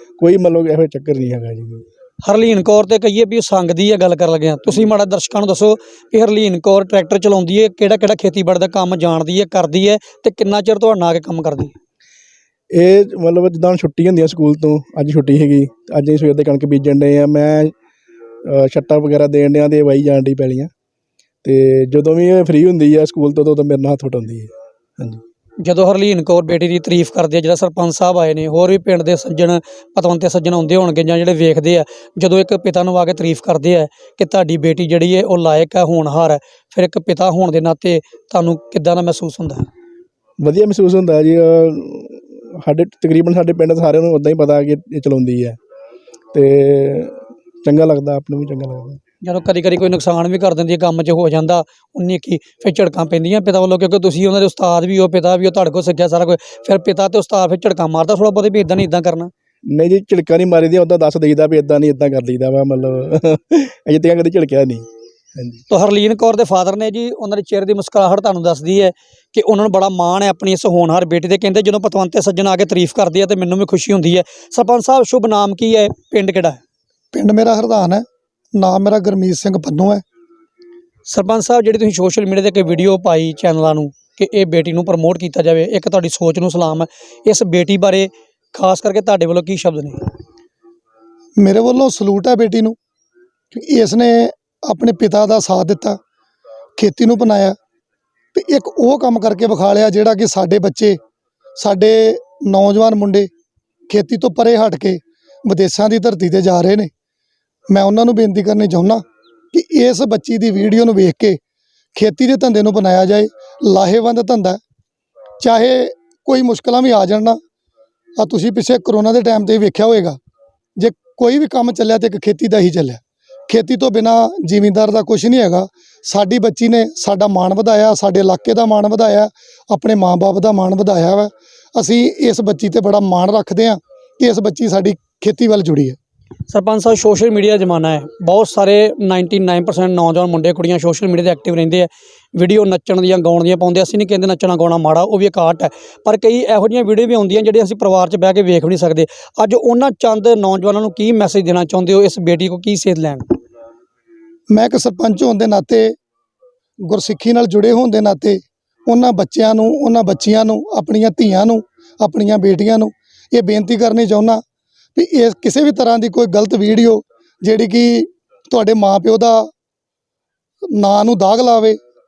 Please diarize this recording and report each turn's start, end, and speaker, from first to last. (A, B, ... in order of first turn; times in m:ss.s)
0:00.2-0:01.8 A
0:02.2-0:11.7 B
0:12.7-0:17.7 A
0:18.4-0:20.7 A
0:21.4-0:25.2 A
0:25.6-0:39.6 B
0:40.4-0:45.6 A
0:46.3-0:49.0 A
0:49.2-0:59.3 B
0:59.7-1:04.8 A
1:05.4-1:05.6 A
1:05.7-1:16.6 B
1:17.1-1:18.0 C
1:18.5-1:20.0 C
1:21.1-1:30.0 B
1:31.4-1:32.8 C
1:33.5-1:36.0 C
1:36.8-1:37.5 C
1:38.3-1:41.0 C
1:41.6-1:43.3 C
1:43.9-1:46.9 C
1:47.7-1:51.4 C
1:51.9-1:54.6 C
1:55.4-1:57.4 C
1:58.2-2:00.2 C
2:00.8-2:16.0 C
2:16.5-2:33.2 B
2:34.5-2:35.9 C
2:36.9-2:44.4 C
2:44.9-2:49.5 C
2:50.7-2:51.8 C